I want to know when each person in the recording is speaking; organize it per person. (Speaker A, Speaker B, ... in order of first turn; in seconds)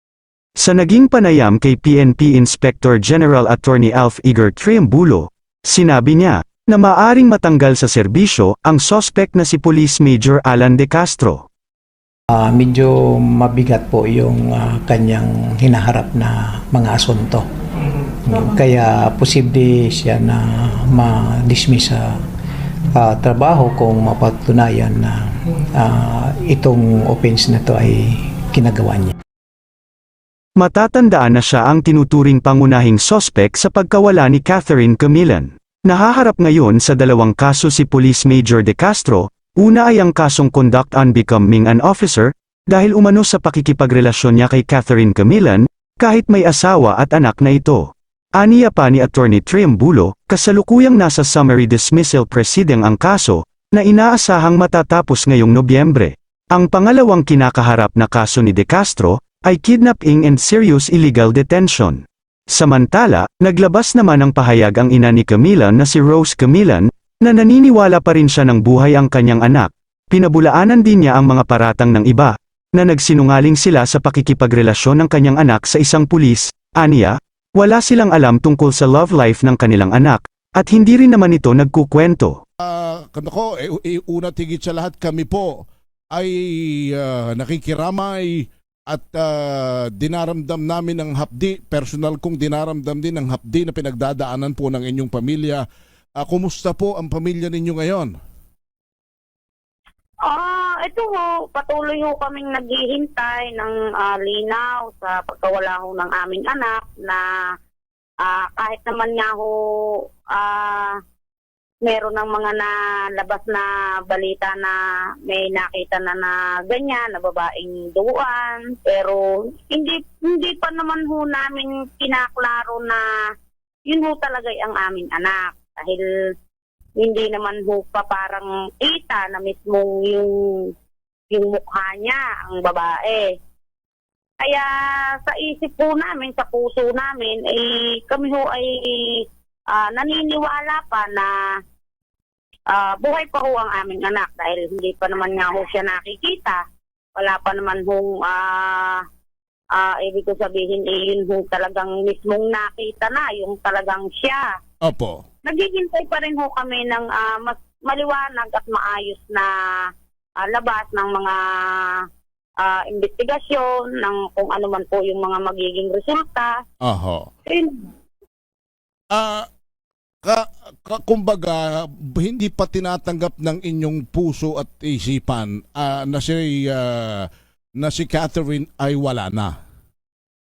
Speaker A: 0.6-11.4, 30.6-82.4
Speaker B: 12.3-17.5, 18.2-22.2, 22.9-29.1
Speaker C: 82.6-95.6, 96.2-98.1, 154.8-155.2, 166.8-167.3, 169.1-169.5, 170.2-179.5
Speaker D: 100.3-107.5, 108.2-111.0, 111.8-123.1, 123.9-126.0, 127.0-130.7, 131.3-133.4, 134.4-141.6, 142.7-146.6, 147.2-149.1, 149.7-154.6, 155.4-162.1, 162.6-166.6, 167.5-167.9